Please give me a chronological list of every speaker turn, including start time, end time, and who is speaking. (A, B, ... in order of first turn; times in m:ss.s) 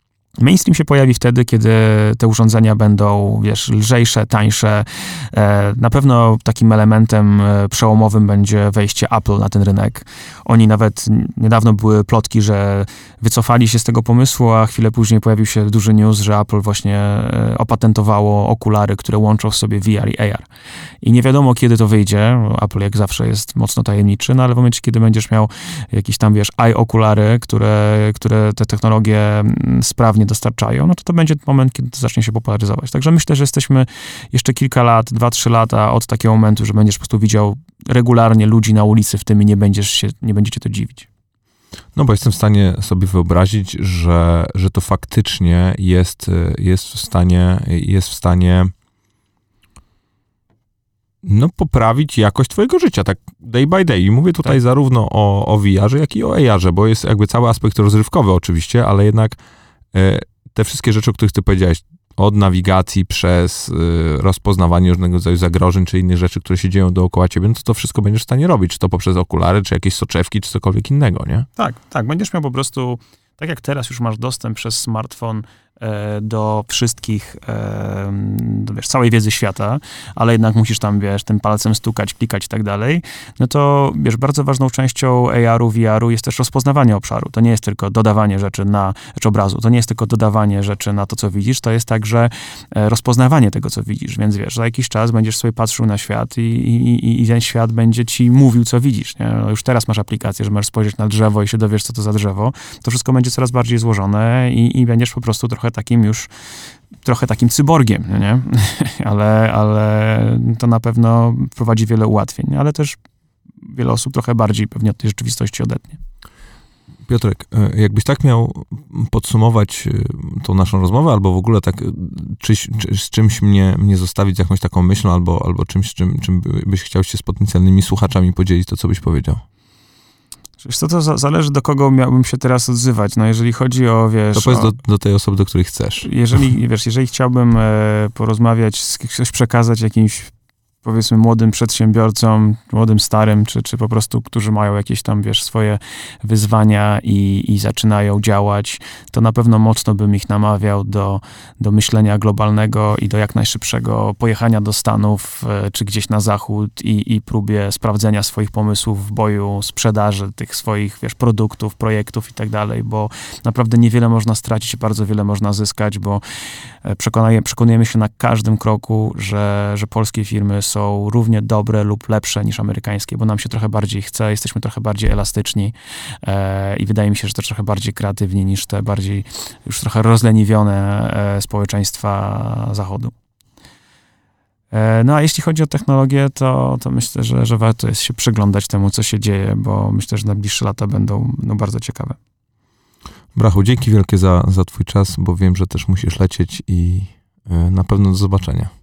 0:00.4-0:20.5 A
0:21.0-0:41.1 A
0:41.9-0:48.7 B
0:51.2-0:59.4 B
0:59.9-1:11.5 B
1:11.6-1:46.3 A
1:47.0-1:53.0 A
1:53.6-1:56.0 A
1:57.0-2:09.4 B
2:10.6-2:14.7 A
2:14.3-2:16.1 B
2:16.0-2:20.3 A
2:20.8-2:46.2 A
2:46.8-3:03.1 A
3:04.7-3:12.2 A
3:13.3-3:18.7 B